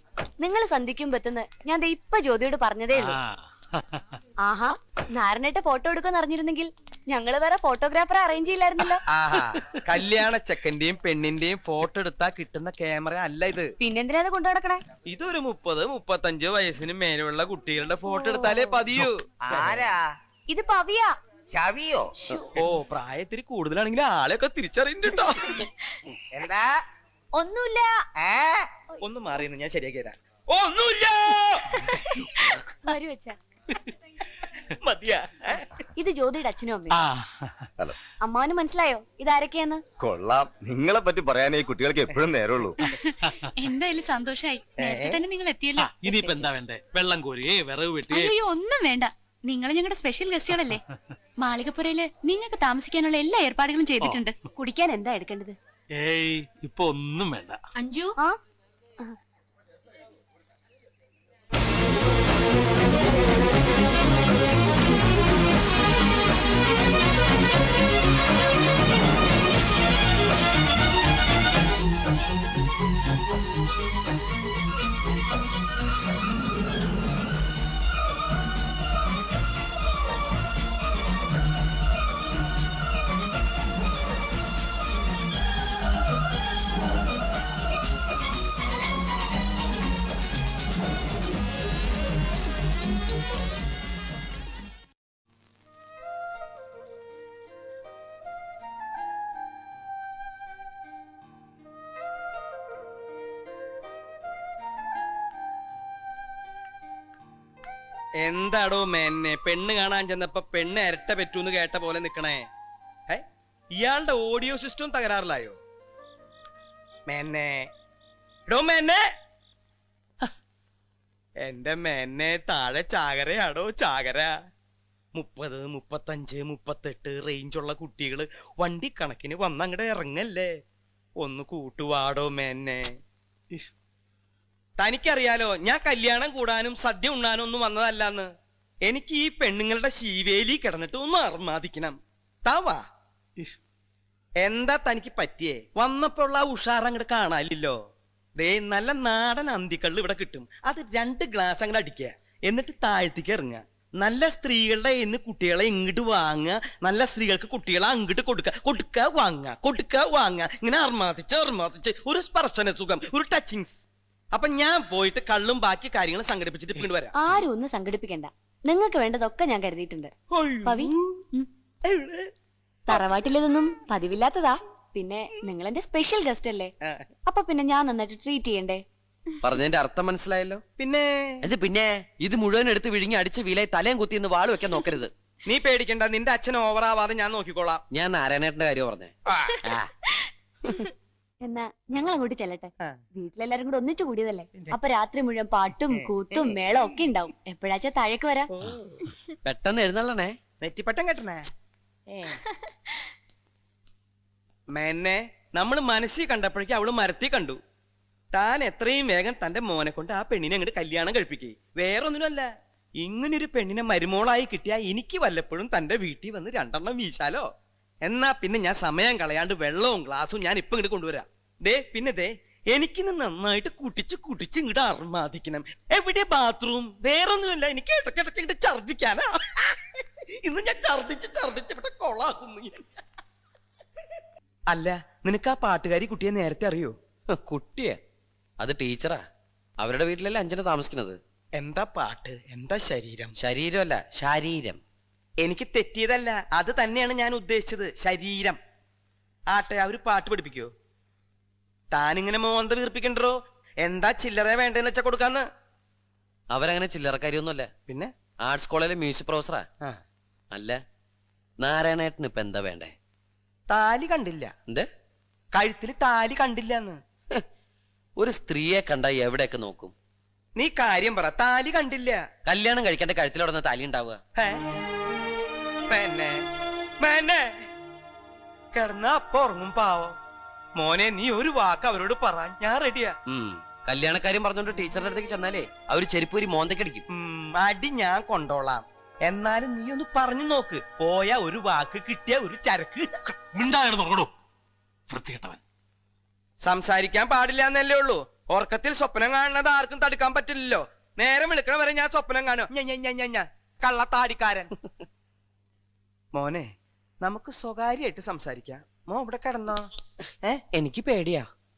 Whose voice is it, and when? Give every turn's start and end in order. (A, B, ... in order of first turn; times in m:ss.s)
0:00.4-0:03.2 A
0:02.9-0:04.2 B
0:04.4-0:09.0 A
0:09.1-0:13.7 C
0:09.3-0:10.2 B
0:13.8-0:14.8 A
0:15.1-0:19.9 C
0:18.1-0:18.8 A
0:19.4-0:20.0 D
0:20.5-0:21.2 A
0:21.5-0:22.1 D
0:22.6-0:25.6 C
0:26.3-0:26.8 D
0:27.4-0:28.0 A
0:28.2-0:28.7 D
0:29.0-0:31.4 C
0:30.8-0:32.3 B
0:32.0-0:33.4 A
0:34.8-0:35.8 C
0:36.0-0:37.0 A
0:36.9-0:37.7 B
0:38.2-0:39.8 A
0:40.0-0:42.8 E
0:43.2-0:43.5 B
0:43.6-0:46.2 F
0:44.8-0:45.2 C
0:45.8-0:48.4 B
0:48.1-0:50.8 F
0:51.4-0:55.5 F
0:54.0-0:54.2 B
0:54.9-0:55.3 A
0:56.0-0:57.6 B
0:57.8-0:58.1 F
1:48.2-1:52.5 C
1:53.1-1:55.6 C
1:57.1-1:57.7 C
1:58.5-1:59.0 C
2:01.4-2:04.4 C
2:05.2-2:10.5 C
2:11.2-2:12.9 C
2:14.8-2:18.3 C
2:18.8-2:22.8 C
2:24.4-2:27.8 C
2:28.4-2:47.1 C
2:47.2-2:50.1 A
2:50.3-2:51.2 C
2:50.6-2:51.5 A
2:51.8-2:52.3 C
2:52.9-2:56.7 A
2:57.3-2:58.8 A
2:59.4-3:00.6 G
3:00.8-3:01.5 C
3:01.4-3:05.1 G
3:05.4-3:07.8 C
3:07.9-3:09.9 G
3:09.3-3:09.6 C
3:10.2-3:10.9 A
3:11.4-3:18.5 A
3:16.0-3:16.6 C
3:18.5-3:19.1 C
3:19.4-3:20.4 G
3:20.6-3:21.5 C
3:22.1-3:22.4 C
3:24.7-3:27.6 C
3:28.3-3:32.5 C
3:33.0-3:37.5 C
3:38.0-3:52.9 C
3:54.7-3:56.9 C
3:57.3-3:58.0 G
3:58.6-3:59.2 G
3:59.8-4:01.2 G
4:01.6-4:03.4 C
4:03.4-4:04.8 G
4:05.4-4:08.6 C
4:09.5-4:10.7 C
4:11.9-4:15.4 C
4:16.5-4:17.7 G
4:17.9-4:18.1 C
4:18.4-4:19.7 G
4:20.5-4:20.8 G
4:21.6-4:22.9 G
4:23.7-4:24.5 C
4:25.5-4:27.0 C
4:28.2-4:29.9 G
4:30.6-4:32.2 C
4:32.5-4:34.2 G
4:34.4-4:34.6 C
4:35.9-4:36.4 C
4:37.0-4:37.5 C
4:38.7-4:40.2 C
4:40.8-4:43.2 C
4:43.3-4:47.0 G
4:47.1-4:53.2 C
4:53.4-4:54.3 B
4:55.1-4:55.6 B
4:56.6-5:04.7 C
5:06.3-5:09.9 C
5:10.7-5:11.5 G